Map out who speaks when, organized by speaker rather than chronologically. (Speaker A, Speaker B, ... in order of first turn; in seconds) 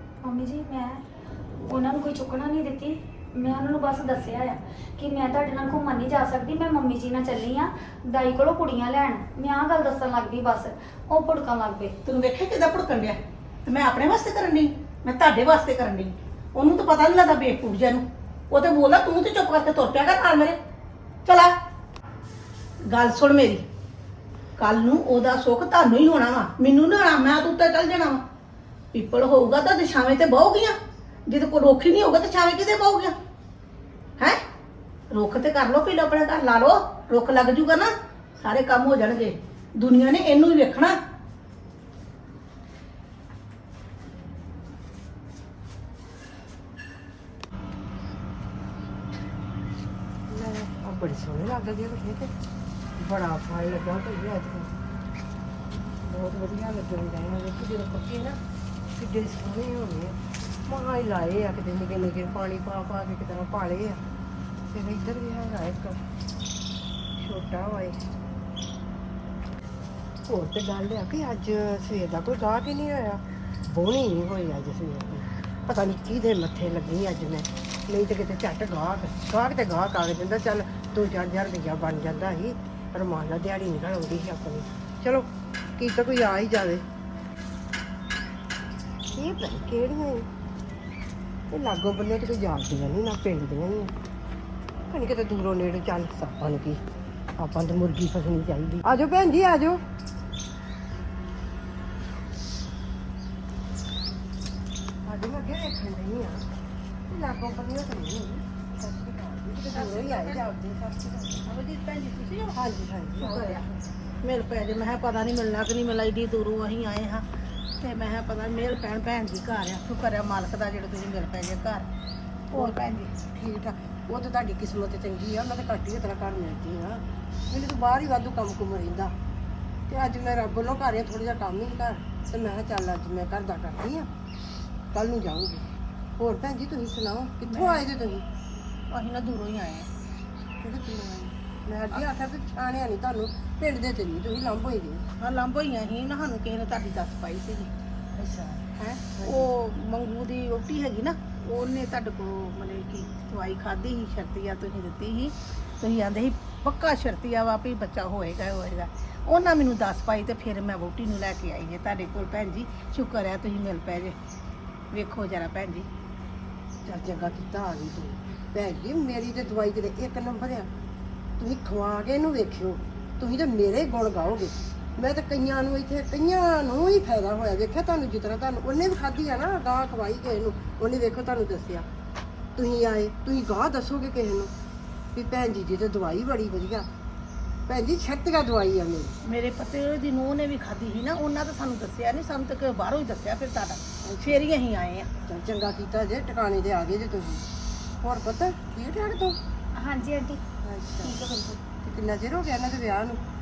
Speaker A: 0.2-1.0, 1.7-11.9, 199.8-200.4, 201.0-201.6
Speaker B: 12.1-20.6, 21.3-21.5, 22.9-23.6, 24.6-28.2, 28.9-30.8, 31.3-33.1, 35.1-40.9, 109.7-110.4, 111.5-112.5, 113.2-113.6, 114.2-117.2, 117.8-121.9, 122.5-123.1, 137.5-137.8, 138.9-139.9, 145.2-147.7, 148.8-164.2, 164.9-165.9, 189.3-195.1
Speaker C: 50.3-52.3, 53.0-54.7, 56.0-58.4, 59.0-60.2, 60.7-64.0, 64.7-66.0, 67.2-68.0, 70.3-86.8, 89.1-90.3, 91.5-93.9, 94.9-96.8, 97.4-99.8, 105.0-106.4, 107.1-111.5, 112.5-113.8, 123.3-129.1, 129.9-134.1, 134.9-135.7, 136.2-138.2, 140.6-145.0, 148.2-149.4, 166.8-170.7, 171.4-181.9, 182.6-184.5, 185.1-186.9, 187.7-189.1, 195.2-197.5, 198.0-199.4, 200.6-201.2, 201.8-203.2